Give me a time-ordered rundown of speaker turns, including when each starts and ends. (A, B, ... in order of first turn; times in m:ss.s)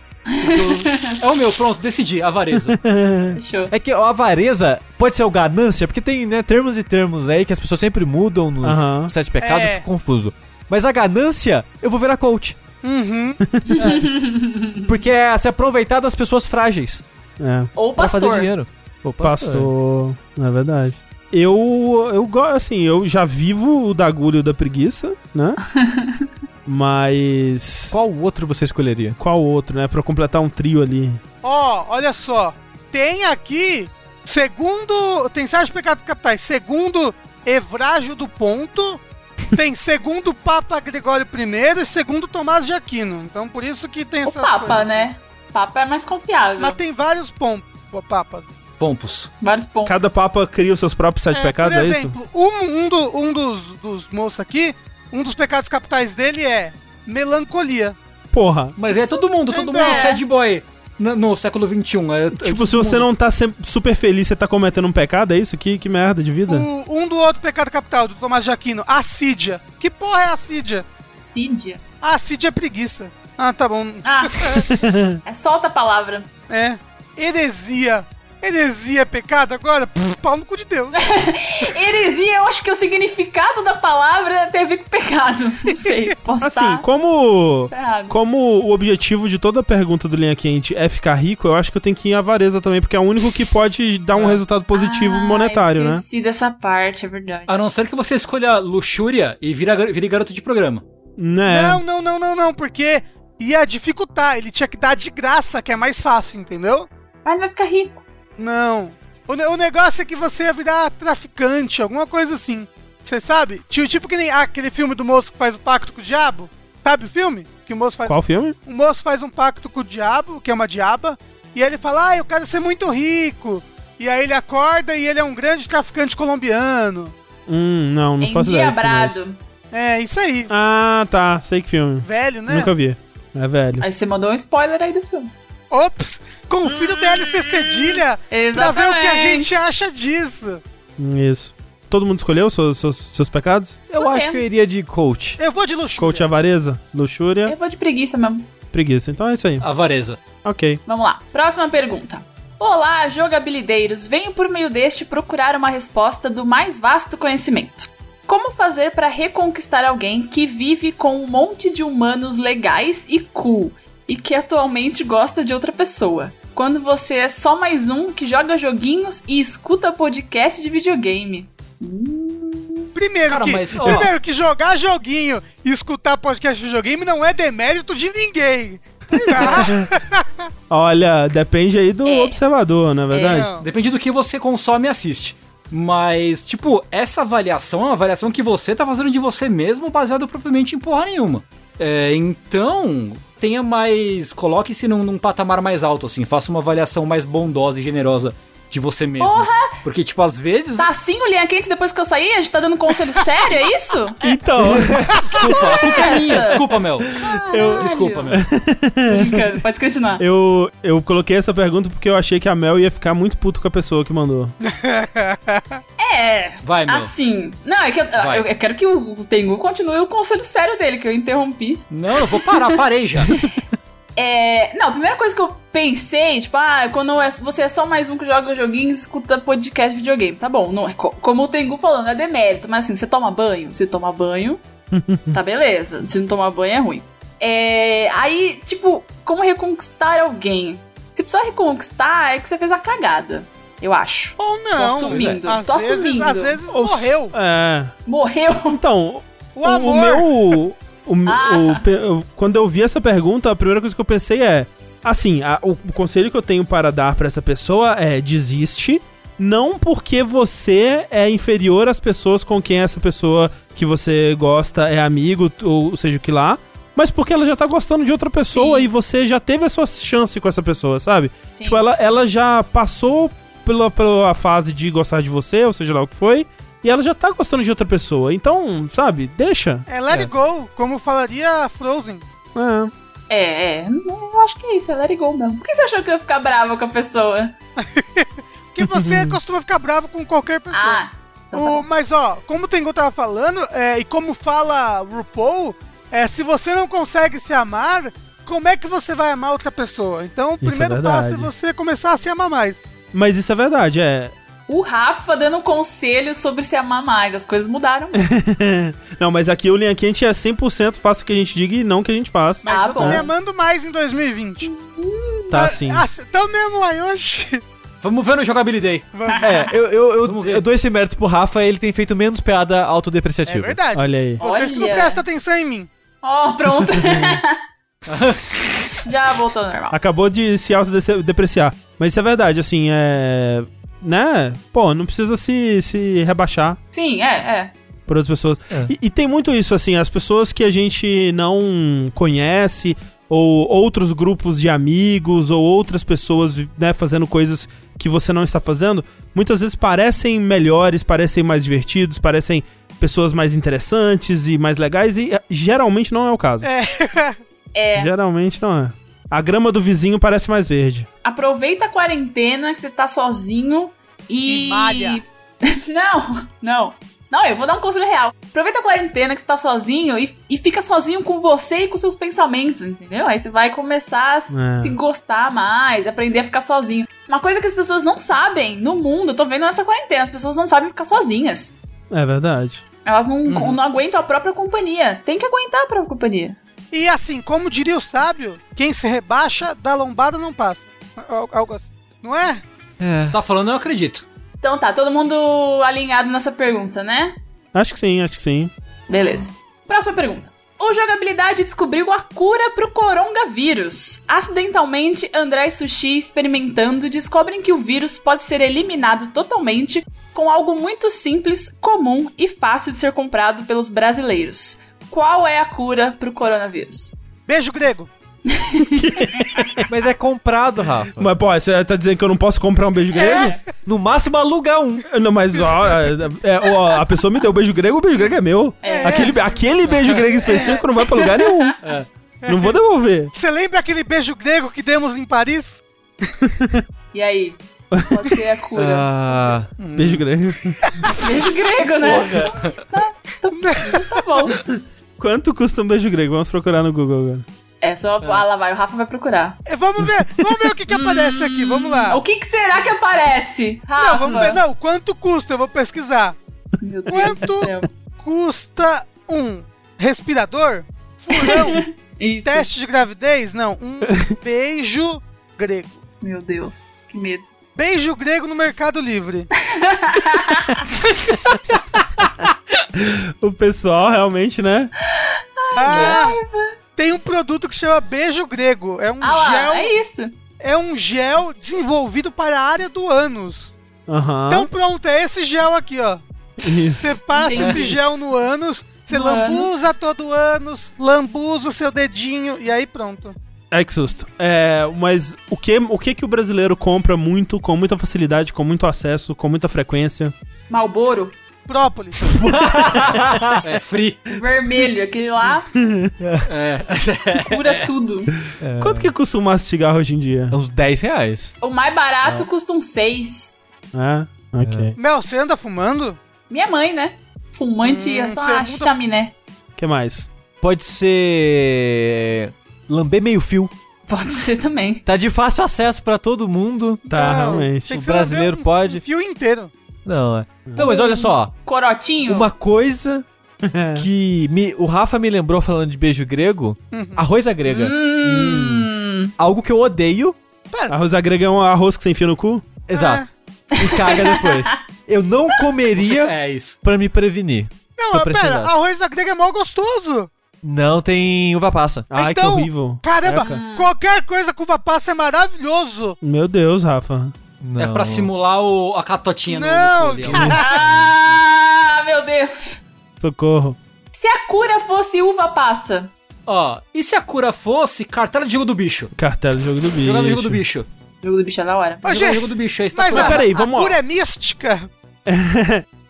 0:00.3-0:01.2 A
0:00.4-0:02.8 B
0:02.7-0:03.4 C
0:03.3-0:03.7 A
0:03.7-0:12.6 D
0:08.6-0:09.1 C
0:09.4-0:09.8 E
0:12.8-0:13.4 E
0:13.4-0:13.9 C
0:13.7-0:14.9 A
0:14.9-0:17.0 D
0:17.4-0:17.7 C
0:17.8-0:18.5 A
0:18.0-0:19.7 D
0:19.2-0:25.6 C
0:25.6-0:26.3 A
0:26.7-0:28.0 C
0:27.9-0:29.2 D
0:29.2-0:31.2 C
0:31.4-0:45.1 E
0:44.2-0:46.8 A
0:46.6-0:48.5 E
0:48.8-0:49.3 B
0:49.4-0:50.0 A
0:49.8-0:52.2 C
0:51.3-0:58.0 E
0:58.3-0:58.8 C
0:58.8-1:03.1 B
0:58.9-1:00.2 E
0:59.7-1:00.2 A
1:02.3-1:06.7 C
1:06.5-1:10.9 E
1:11.3-1:11.8 A
1:12.0-1:14.7 E
1:14.0-1:14.6 A
1:14.6-1:15.2 C
1:15.2-1:16.3 A
1:16.5-1:21.0 E
1:21.0-1:26.9 A
1:26.4-1:36.0 C
1:27.7-1:28.2 A
1:34.1-1:34.4 B
1:34.7-1:37.7 A
1:37.5-1:40.8 B
1:41.2-1:41.8 C
1:41.5-1:46.9 E
1:47.2-1:48.0 A
1:48.4-2:07.1 E
1:58.1-1:58.6 C
2:07.5-2:09.2 C
2:08.2-2:09.4 A
2:09.7-2:10.5 E
2:10.5-2:13.8 C
2:12.0-2:12.7 E
2:13.8-2:15.3 A
2:15.7-2:20.6 E
2:16.6-2:19.6 A
2:21.0-2:23.8 C
2:23.9-2:25.4 D
2:23.9-2:24.4 A
2:25.4-2:26.3 E
2:26.0-2:27.5 C
2:27.5-2:28.5 A
2:28.7-2:29.6 C
2:29.6-2:30.2 B
2:30.4-2:30.8 C
2:30.9-2:52.9 A
2:53.0-3:00.5 E
2:53.3-2:54.1 B
2:59.2-2:59.9 C
3:00.7-3:03.5 C
3:02.0-3:02.4 A
3:03.1-3:03.5 A
3:03.3-3:03.7 E
3:03.6-3:20.9 B
3:19.2-3:19.8 A
3:20.8-3:24.2 A
3:24.2-3:26.5 C
3:25.2-3:28.4 B
3:25.4-3:28.4 A
3:27.0-3:29.4 C
3:29.1-3:30.2 A
3:30.2-3:34.6 C
3:34.6-3:35.8 E
3:36.0-3:42.8 A
3:36.6-3:37.1 B
3:38.2-3:38.5 B
3:41.9-3:43.4 B
3:44.2-3:54.6 A
3:54.9-3:55.4 C
3:55.3-4:06.6 A
4:04.4-4:07.4 E
4:05.1-4:05.4 B
4:06.7-4:08.0 C
4:08.1-4:08.8 A
4:08.7-4:39.9 C
4:09.6-4:10.6 E
4:11.3-4:11.8 A
4:28.5-4:28.9 A
4:31.6-4:31.8 A
4:39.9-4:42.2 E
4:42.6-4:42.9 C
4:43.3-4:47.5 A
4:47.8-4:51.0 E
4:48.8-4:49.4 C
4:50.7-4:51.9 A
4:51.5-5:02.8 E
5:00.6-5:01.5 C
5:03.1-5:04.3 C
5:04.7-5:08.2 A
5:08.1-5:13.2 C
5:12.6-5:14.7 E
5:12.7-5:13.3 A
5:14.6-5:15.6 A
5:15.5-5:16.1 C
5:15.5-5:17.6 E
5:18.0-5:19.1 B
5:19.1-5:19.6 E
5:19.3-5:19.7 A
5:19.4-5:23.8 D
5:20.2-5:20.6 B
5:23.5-5:25.9 E
5:23.9-5:24.4 C
5:24.4-5:25.2 A
5:26.2-5:27.6 A
5:26.9-5:27.4 C
5:28.1-5:28.6 B
5:29.0-5:30.0 A
5:29.9-5:36.8 C
5:36.9-5:37.7 A
5:38.1-5:56.7 C
5:56.6-5:57.4 E
5:57.7-5:58.1 A
5:58.0-6:01.1 C
6:01.2-6:21.7 A
6:04.5-6:05.2 E
6:14.5-6:15.0 C
6:22.1-6:22.8 C
6:23.0-6:26.6 A
6:23.5-6:23.8 B
6:26.9-6:32.6 E
6:33.0-6:33.4 D
6:33.3-6:34.2 B
6:34.6-6:37.4 A
6:37.7-6:38.7 C
6:39.1-6:57.1 A
6:57.5-6:58.1 E
6:58.5-6:59.6 A
6:58.8-6:59.9 C
6:59.9-7:01.3 D
7:01.2-7:03.6 C
7:03.2-7:03.6 A
7:03.2-7:03.6 E
7:03.8-7:05.1 D
7:05.1-7:11.8 C
7:08.8-7:09.4 A
7:08.9-7:09.4 E
7:10.4-7:10.8 E
7:11.0-7:11.8 A
7:11.8-7:12.1 B
7:12.4-7:12.7 E
7:12.5-7:13.3 C
7:13.4-7:15.8 E
7:16.4-7:16.8 C
7:17.1-7:19.6 A
7:17.9-7:18.4 C
7:18.8-7:19.7 D
7:19.8-7:20.2 B
7:20.0-7:21.1 C
7:21.1-7:24.6 A
7:22.1-7:22.5 D
7:23.5-7:24.1 E
7:24.6-7:27.4 C
7:27.8-7:29.6 A
7:29.7-7:32.2 E
7:30.9-7:34.6 A
7:34.0-7:36.4 E
7:36.8-7:37.9 A
7:37.1-7:41.9 E
7:41.3-7:42.7 A
7:42.4-7:46.0 E
7:46.2-7:47.4 A
7:47.8-7:49.5 E
7:49.6-7:50.9 A
7:51.0-7:51.8 E
7:52.9-7:54.9 C
7:55.0-7:56.8 A
7:55.8-7:56.4 E
7:57.0-7:59.9 E
7:59.2-8:00.4 A
8:00.6-8:03.7 E
8:04.1-8:04.7 C
8:04.5-8:13.4 E
8:06.6-8:07.6 C
8:07.3-8:08.2 A
8:09.1-8:09.7 A
8:13.7-8:20.3 C
8:20.7-8:21.4 A
8:21.7-8:22.5 E
8:22.2-8:23.6 D
8:23.6-8:24.2 B
8:24.3-8:25.7 A
8:25.8-8:26.1 C
8:26.2-8:26.5 D
8:26.5-8:27.9 B
8:27.4-8:28.3 A
8:28.6-8:29.1 D
8:28.8-8:30.6 C
8:30.5-8:31.5 D
8:31.6-8:33.6 A
8:33.9-8:35.0 C
8:34.6-8:35.0 D
8:35.0-8:36.2 E
8:36.5-8:39.3 A
8:37.8-8:38.9 E
8:39.8-8:40.3 C
8:40.6-8:43.7 D
8:44.1-8:45.0 A
8:45.1-8:47.1 D
8:47.1-8:49.7 E
8:47.1-8:48.0 C
8:47.8-8:49.0 D
8:50.0-8:51.5 D
8:50.8-8:52.5 A
8:52.2-8:53.2 D
8:53.6-8:54.1 C
8:54.0-8:58.0 D
8:56.9-8:57.3 E
8:57.6-8:59.3 A
8:58.2-8:58.9 C
8:59.4-9:00.4 D
9:00.7-9:01.0 E
9:00.9-9:02.7 C
9:02.9-9:03.2 D
9:02.9-9:03.3 E
9:03.7-9:04.8 A
9:03.8-9:08.7 D
9:06.0-9:06.8 B
9:08.0-9:10.3 E
9:10.6-9:12.1 D
9:12.1-9:13.6 C
9:12.1-9:16.2 E
9:13.3-9:13.9 A
9:16.2-9:17.3 C
9:17.6-9:18.3 D
9:17.8-9:20.8 B
9:19.5-9:20.8 E
9:20.6-9:22.8 A
9:23.2-9:23.8 C
9:24.1-9:26.1 A
9:26.5-9:29.1 B
9:29.2-9:30.6 C
9:30.0-9:30.9 B
9:31.2-9:32.1 A
9:32.0-9:33.4 B
9:32.0-9:34.9 E
9:33.1-9:34.0 C
9:35.3-9:35.8 C